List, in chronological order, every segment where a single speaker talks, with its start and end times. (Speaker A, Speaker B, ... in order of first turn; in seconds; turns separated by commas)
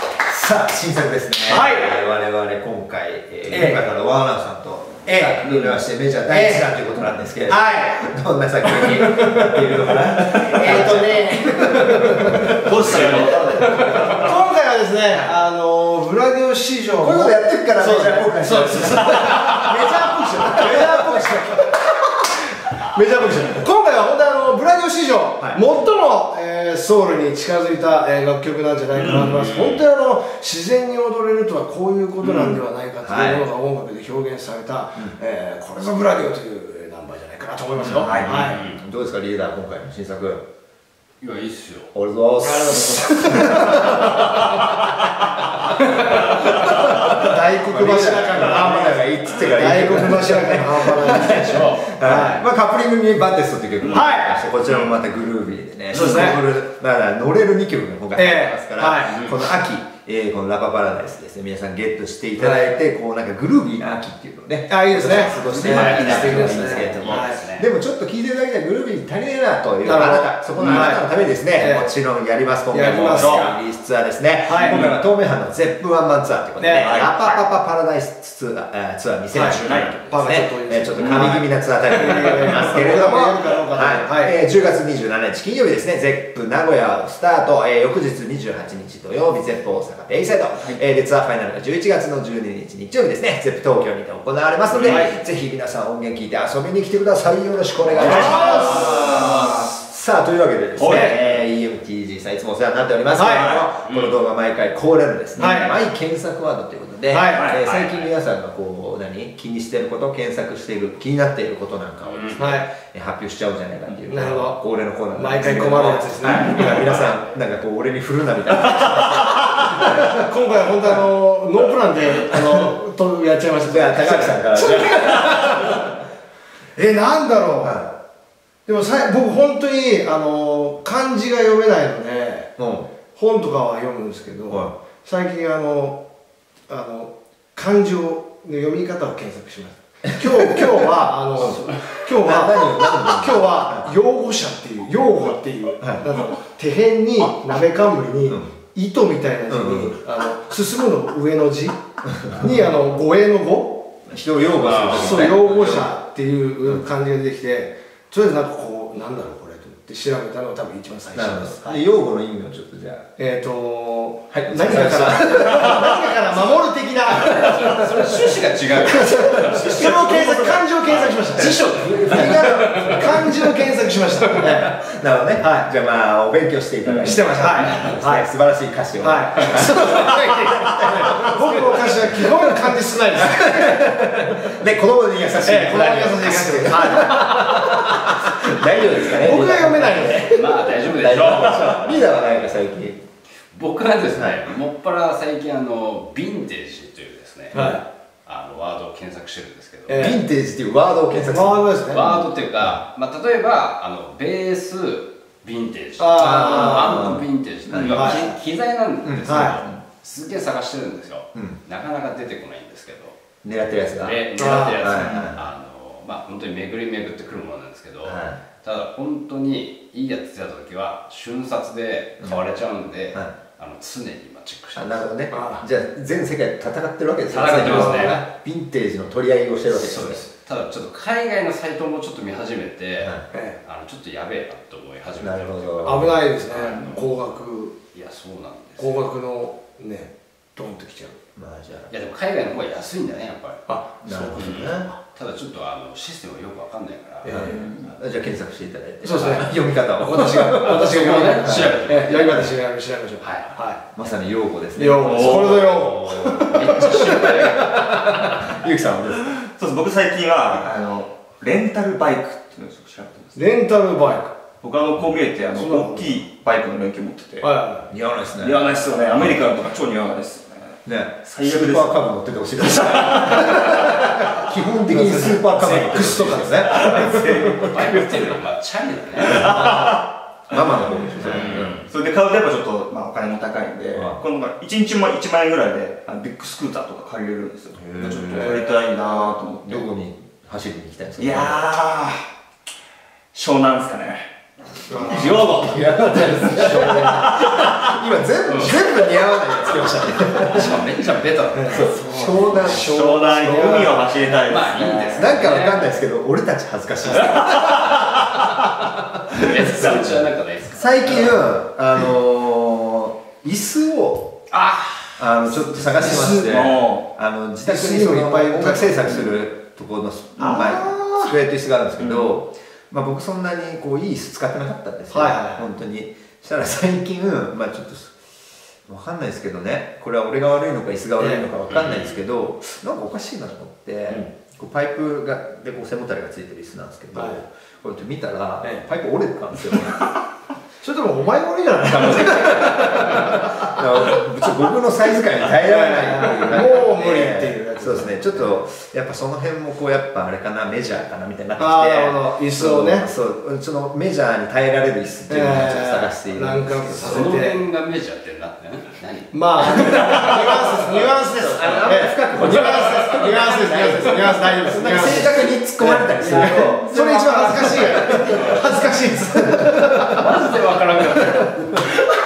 Speaker A: 0.2-14.2, Speaker B: 1.5-2.0, Speaker B: 3.5-3.9, Speaker B: 5.1-5.6, Speaker B: 6.3-6.7, Speaker B: 7.5-8.1, Speaker B: 8.7-12.6, Speaker C: 12.6-14.2, Speaker B: 13.6-21.8, Speaker A: 17.0-21.4, Speaker B: 22.9-38.6, Speaker C: 28.9-29.3, Speaker D: 29.3-29.8, Speaker C: 32.2-32.6, Speaker A: 33.0-33.5, Speaker A: 37.8-40.4, Speaker C: 38.0-38.5, Speaker D: 38.3-38.8, Speaker D: 41.2-41.9, Speaker A: 41.9-44.7, Speaker B: 42.4-45.0, Speaker B: 45.8-52.4, Speaker A: 46.1-120.1, Speaker D: 51.4-52.4, Speaker C: 53.8-54.0, Speaker B: 53.9-54.5, Speaker C: 54.7-55.0, Speaker B: 55.9-56.4, Speaker C: 55.9-56.4, Speaker B: 58.1-59.3, Speaker D: 59.0-59.4, Speaker B: 62.4-62.7, Speaker B: 64.7-67.4, Speaker D: 65.2-67.7, Speaker C: 65.8-66.3, Speaker B: 69.8-71.9, Speaker C: 70.6-70.9, Speaker B: 72.7-73.5, Speaker C: 73.2-73.5, Speaker B: 74.5-74.9, Speaker C: 74.6-75.0, Speaker B: 76.6-76.9, Speaker C: 76.8-77.4, Speaker B: 79.3-84.3, Speaker C: 79.6-80.0, Speaker C: 81.0-81.3, Speaker C: 94.7-95.0, Speaker B: 94.9-95.1, Speaker C: 98.0-99.7, Speaker B: 98.0-99.0, Speaker C: 100.8-101.4, Speaker B: 100.9-101.2, Speaker B: 103.1-103.7, Speaker C: 103.3-103.6, Speaker D: 103.8-104.2, Speaker B: 105.4-105.7, Speaker B: 107.1-107.5, Speaker C: 107.3-107.7, Speaker D: 107.6-108.1, Speaker D: 112.1-112.4, Speaker B: 112.4-112.7, Speaker B: 114.1-114.6, Speaker B: 115.1-116.9, Speaker D: 116.5-117.1, Speaker B: 119.4-125.9, Speaker A: 123.6-125.9, Speaker B: 126.8-127.8, Speaker A: 127.6-127.9, Speaker B: 128.7-132.5, Speaker A: 132.6-132.9, Speaker B: 133.1-136.0, Speaker B: 136.7-151.8, Speaker A: 141.4-141.7, Speaker D: 141.4-141.8, Speaker A: 142.2-143.9, Speaker A: 149.5-149.9, Speaker A: 152.3-152.7, Speaker B: 152.3-153.9, Speaker A: 154.1-155.9, Speaker D: 154.6-155.3, Speaker B: 154.9-161.8, Speaker A: 161.1-163.1, Speaker B: 163.2-174.7, Speaker A: 164.3-166.1, Speaker D: 167.1-173.0, Speaker A: 168.9-170.6, Speaker A: 171.4-173.3, Speaker A: 174.3-182.6, Speaker B: 175.4-175.7, Speaker C: 176.9-177.2, Speaker B: 177.0-178.3, Speaker D: 177.6-177.9, Speaker B: 179.0-184.4, Speaker A: 183.1-193.0, Speaker B: 185.4-188.0, Speaker D: 188.9-192.6, Speaker B: 189.1-190.7, Speaker D: 193.5-197.7, Speaker A: 194.1-194.4, Speaker A: 197.5-197.8, Speaker B: 197.5-197.8, Speaker D: 198.3-200.2, Speaker B: 199.9-200.2, Speaker A: 199.9-201.7, Speaker B: 201.1-202.3, Speaker D: 201.9-213.2, Speaker B: 206.0-207.2, Speaker A: 206.2-208.2, Speaker B: 207.9-208.4, Speaker A: 209.0-209.8, Speaker B: 209.2-209.6, Speaker A: 213.4-214.2, Speaker D: 214.0-225.1, Speaker B: 214.4-214.8, Speaker A: 214.8-215.5, Speaker C: 214.9-215.4, Speaker A: 218.0-218.4, Speaker A: 224.8-230.2, Speaker B: 225.3-225.7, Speaker D: 227.3-228.2, Speaker B: 227.4-228.2, Speaker D: 229.7-237.1, Speaker B: 233.3-233.6, Speaker A: 235.2-236.2, Speaker B: 235.8-237.8, Speaker D: 237.9-239.0, Speaker B: 238.8-241.2, Speaker A: 241.4-241.9, Speaker D: 241.9-243.7, Speaker B: 243.7-244.9, Speaker A: 244.0-244.8, Speaker D: 244.3-247.4, Speaker B: 247.2-247.6, Speaker A: 247.3-252.5, Speaker C: 247.4-248.0, Speaker B: 249.0-253.8, Speaker D: 250.6-252.4, Speaker D: 253.2-254.1, Speaker A: 253.9-256.5, Speaker B: 254.8-258.3, Speaker C: 255.0-255.6, Speaker D: 256.4-257.9, Speaker A: 258.4-259.4, Speaker C: 259.4-263.4, Speaker B: 263.4-264.4, Speaker C: 264.6-267.5, Speaker B: 265.5-266.2, Speaker B: 267.4-267.9, Speaker A: 267.9-268.6, Speaker C: 268.4-272.0, Speaker A: 270.9-277.3, Speaker C: 272.6-273.6, Speaker B: 274.9-277.8, Speaker C: 276.0-278.0, Speaker D: 277.7-279.7, Speaker C: 279.3-280.0, Speaker A: 279.3-281.8, Speaker C: 281.2-289.9, Speaker D: 281.2-281.9, Speaker A: 283.9-284.2, Speaker A: 287.8-288.6, Speaker B: 288.3-288.8, Speaker A: 289.6-291.7, Speaker C: 291.2-292.2, Speaker C: 293.3-294.3, Speaker B: 294.9-295.5, Speaker C: 294.9-297.8, Speaker A: 295.1-300.8, Speaker B: 296.5-297.4, Speaker D: 298.5-298.8, Speaker D: 299.7-302.2, Speaker B: 301.5-304.3, Speaker A: 301.7-302.9, Speaker C: 302.5-305.4, Speaker D: 304.4-306.0, Speaker A: 305.2-308.0, Speaker D: 307.1-311.4, Speaker A: 309.7-314.4, Speaker D: 314.5-316.0, Speaker A: 315.2-328.2, Speaker C: 315.9-317.1, Speaker B: 316.2-316.4, Speaker B: 317.6-319.3, Speaker C: 320.4-320.8, Speaker B: 320.4-321.3, Speaker C: 322.0-322.3, Speaker B: 325.1-325.6, Speaker A: 328.9-340.1, Speaker B: 331.2-331.5, Speaker D: 331.7-332.2, Speaker B: 337.1-337.4, Speaker B: 340.8-343.7, Speaker C: 341.9-342.6, Speaker A: 342.1-357.4, Speaker B: 345.6-348.6, Speaker B: 351.6-353.1, Speaker B: 355.3-357.6, Speaker D: 356.9-361.1, Speaker B: 359.3-370.3, Speaker A: 360.5-370.2, Speaker D: 362.4-364.3, Speaker D: 366.2-366.8, Speaker D: 367.3-368.8, Speaker D: 370.0-371.9